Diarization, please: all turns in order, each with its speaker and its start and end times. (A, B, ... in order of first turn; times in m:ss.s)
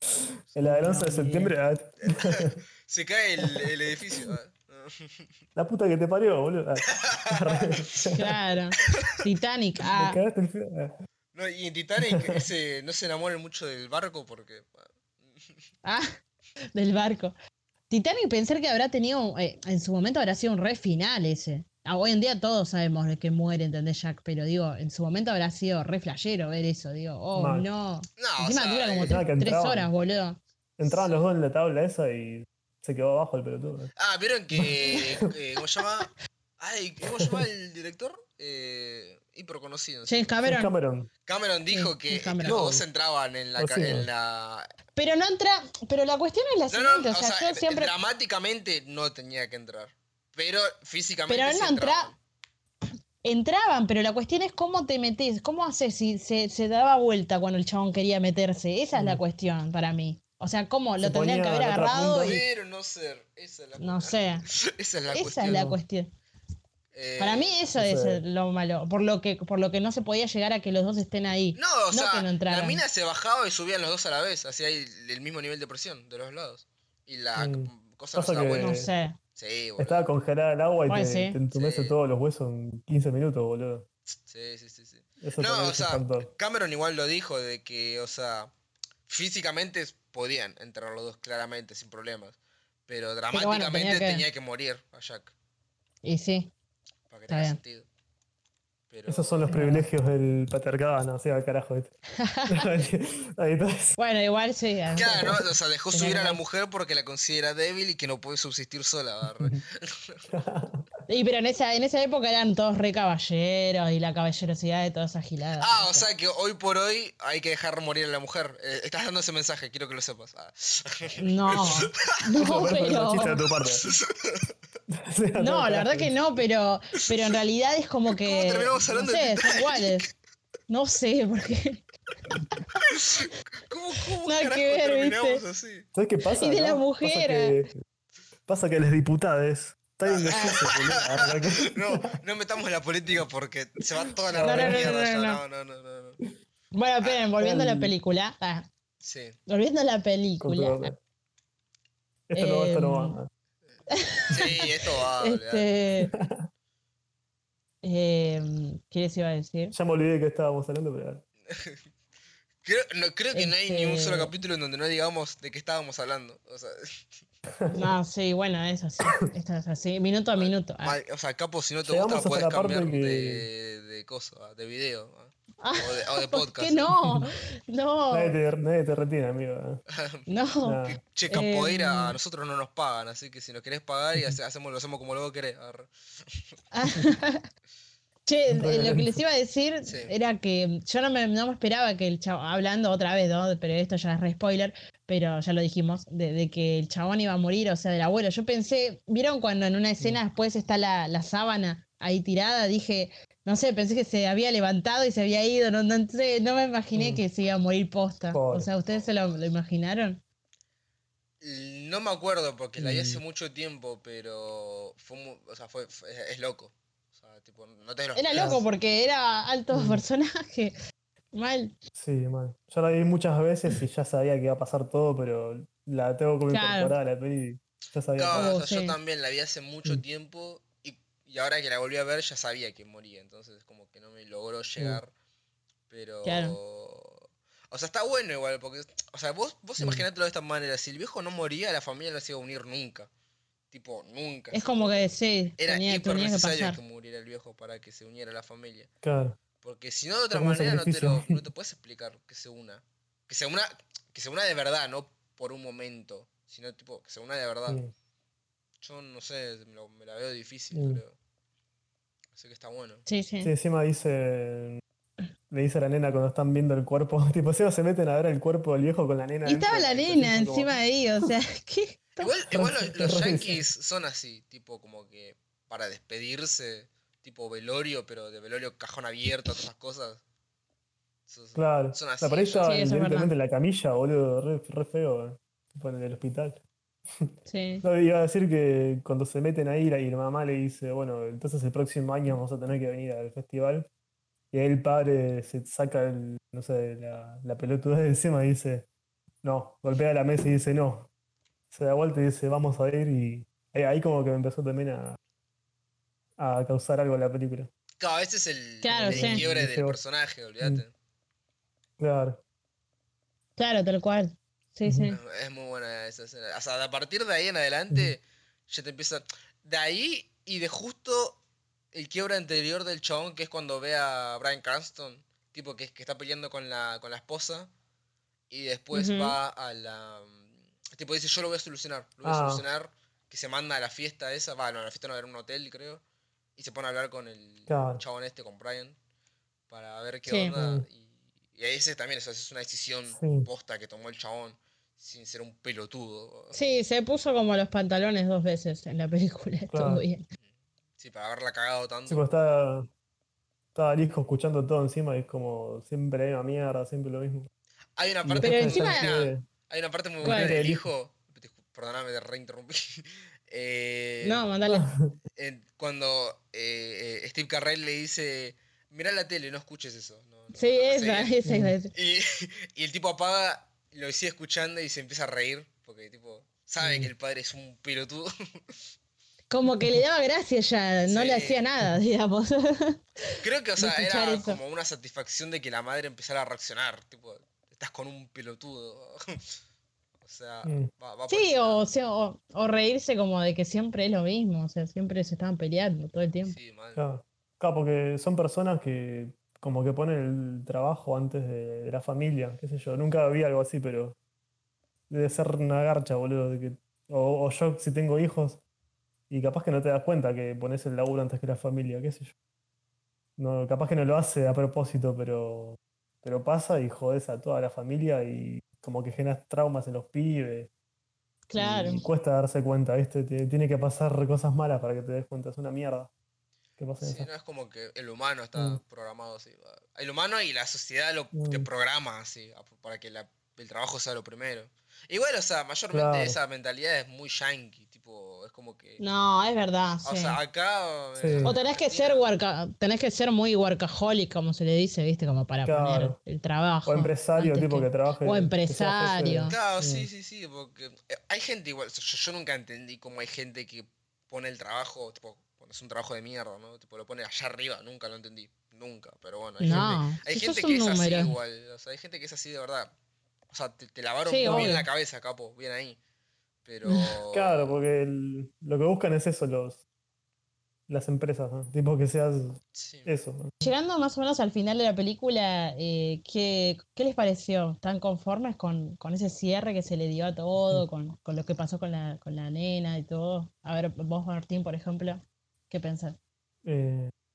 0:00.5-0:02.6 A
0:00.6-0:01.6 B
0:02.0-0:05.3 C
0:03.4-0:03.7 A
0:05.6-0:08.3 A
0:06.9-0:08.0 C
0:08.1-0:10.2 B
0:08.9-0:09.2 C
0:09.9-0:10.9 A
0:11.3-0:15.6 C
0:12.0-0:12.4 A
0:15.8-0:16.1 B
0:16.7-0:17.4 B
0:17.9-0:31.1 B
0:27.4-0:27.7 A
0:28.2-0:29.2 C
0:29.0-0:29.9 A
0:30.8-0:33.9 A
0:34.0-0:40.4 C
0:34.5-0:35.2 A
0:37.2-0:37.5 A
0:40.1-0:40.7 B
0:40.5-0:41.1 A
0:41.3-0:44.7 C
0:41.7-0:42.6 B
0:42.4-0:42.8 A
0:43.6-0:44.1 A
0:45.0-0:47.9 B
0:46.7-0:52.2 C
0:51.3-0:52.1 B
0:53.2-1:02.4 B
0:58.9-0:59.2 A
1:01.0-1:02.4 A
1:02.2-1:05.7 C
1:03.8-1:04.5 B
1:05.1-1:06.1 B
1:06.9-1:07.6 C
1:07.2-1:12.8 B
1:07.8-1:08.2 A
1:11.6-1:18.8 C
1:17.4-1:18.9 A
1:18.5-1:19.2 B
1:19.4-1:20.1 C
1:19.8-1:23.9 A
1:20.9-1:21.4 B
1:21.5-1:22.0 C
1:24.2-1:28.5 C
1:25.2-1:26.3 A
1:29.1-1:35.3 C
1:33.3-1:34.2 B
1:36.0-1:36.5 B
1:37.1-1:37.9 C
1:37.3-1:37.6 B
1:38.9-1:39.5 C
1:39.1-1:41.9 A
1:39.5-1:39.9 B
1:42.2-1:42.7 B
1:42.5-1:44.0 A
1:44.0-1:46.4 B
1:45.0-1:50.2 C
1:50.3-1:50.9 A
1:51.1-1:56.1 B
1:55.6-2:02.2 C
2:01.2-2:03.4 B
2:02.4-2:03.9 A
2:03.7-2:04.5 C
2:04.9-2:06.1 A
2:05.4-2:10.1 B
2:08.2-2:10.1 C
2:10.7-2:11.9 B
2:12.8-2:15.9 C
2:14.2-2:15.4 B
2:15.9-2:17.8 A
2:16.4-2:17.6 B
2:18.5-2:22.1 A
2:20.0-2:26.2 C
2:20.3-2:20.7 B
2:24.3-2:24.9 A
2:24.4-2:25.4 B
2:26.7-2:28.7 B
2:27.4-2:27.9 A
2:29.0-2:29.4 C
2:29.5-2:30.9 B
2:30.4-2:31.0 A
2:32.3-2:33.3 A
2:32.4-2:33.2 B
2:33.9-2:34.7 B
2:34.3-2:35.7 C
2:35.2-2:36.1 B
2:36.1-2:36.5 A
2:37.8-2:39.8 B
2:39.7-2:41.2 A
2:41.5-2:41.8 C
2:42.6-2:47.0 C
2:43.3-2:44.3 B
2:47.6-2:47.9 A
2:47.7-2:51.0 B
2:50.3-2:57.0 C
2:51.8-2:53.5 A
2:55.6-2:58.4 B
2:58.1-2:59.8 A
2:59.9-3:00.3 C
3:00.3-3:02.2 B
3:00.6-3:01.0 A
3:01.0-3:06.5 C
3:06.7-3:07.4 B
3:08.3-3:30.2 B
3:08.5-3:09.1 A
3:09.8-3:10.1 C
3:27.0-3:27.2 A
3:28.3-3:28.7 A
3:28.9-3:29.3 C
3:31.4-3:38.6 C
3:32.8-3:33.2 A
3:38.2-3:40.8 B
3:38.3-3:38.6 A
3:39.7-3:40.0 A
3:41.3-3:41.8 B
3:42.0-3:48.6 A
3:46.5-3:47.0 B
3:48.2-3:55.1 C
3:48.3-3:49.0 B
3:55.9-4:03.1 C
3:56.2-3:56.6 B
3:59.8-4:00.0 A
4:03.7-4:08.9 C
4:04.5-4:06.8 B
4:09.0-4:09.4 A
4:09.6-4:17.8 C
4:10.3-4:11.4 A
4:17.7-4:17.9 A
4:18.8-4:21.2 C
4:20.7-4:21.0 A
4:22.3-4:23.0 C
4:23.1-4:23.5 B
4:23.4-4:24.8 A
4:25.5-4:30.8 A
4:29.4-4:32.3 B
4:32.2-4:40.2 C
4:32.5-4:33.6 A
4:41.3-4:42.7 C
4:41.6-4:46.6 A
4:42.6-4:43.3 B
4:47.5-4:47.8 B
4:47.8-4:53.9 A
4:54.5-4:58.9 A
4:59.4-5:01.1 A
5:01.7-5:05.2 A
5:06.4-5:07.7 A
5:08.0-5:10.9 C
5:08.8-5:09.4 B
5:09.0-5:10.0 A
5:12.0-5:12.4 A
5:13.6-5:15.2 B
5:14.8-5:15.1 A
5:15.1-5:21.4 C
5:21.9-5:27.7 C
5:28.5-5:36.0 C
5:28.9-5:29.4 B
5:32.2-5:32.7 A
5:36.6-5:39.0 C
5:37.7-5:38.0 A
5:39.7-5:46.6 C
5:40.3-5:40.6 B
5:40.6-5:40.9 A
5:43.1-5:43.5 A
5:46.5-5:50.2 B
5:49.7-5:50.0 A
5:51.0-5:52.3 C
5:52.1-5:52.9 A
5:53.8-5:57.5 A
5:58.0-6:04.5 C
5:58.2-5:59.5 A
5:58.4-5:59.2 B
6:00.2-6:00.9 A
6:00.2-6:00.6 B
6:04.2-6:04.9 B
6:04.7-6:05.1 A
6:05.4-6:11.4 C
6:10.5-6:11.9 B
6:11.5-6:11.7 A
6:11.9-6:18.8 C
6:16.8-6:17.1 A
6:19.5-6:24.6 B
6:21.1-6:21.6 C
6:23.4-6:29.5 C
6:30.2-6:31.9 C
6:30.6-6:30.9 A
6:31.3-6:36.6 B
6:36.4-6:37.0 C
6:37.0-6:44.2 A
6:45.1-6:48.6 A
6:49.3-6:52.3 A
6:53.4-7:00.7 A
7:01.5-7:02.0 B
7:01.5-7:06.1 A
7:06.8-7:07.3 A
7:07.0-7:19.0 C
7:08.6-7:08.8 A
7:11.3-7:11.7 A
7:15.9-7:16.4 A
7:19.0-7:20.4 B
7:20.0-7:22.3 C
7:21.2-7:21.6 A
7:21.4-7:29.6 B
7:25.6-7:26.2 A
7:26.9-7:30.1 A
7:29.5-7:42.9 C
7:39.6-7:41.3 B
7:39.6-7:40.0 A
7:43.5-7:46.0 C
7:44.3-7:44.9 B
7:44.4-7:44.8 A
7:46.6-7:47.8 C
7:46.9-7:47.1 B
7:47.3-7:49.8 A
7:50.9-7:53.5 A
7:52.7-7:53.1 C
7:53.6-8:06.2 B
8:06.6-8:07.1 A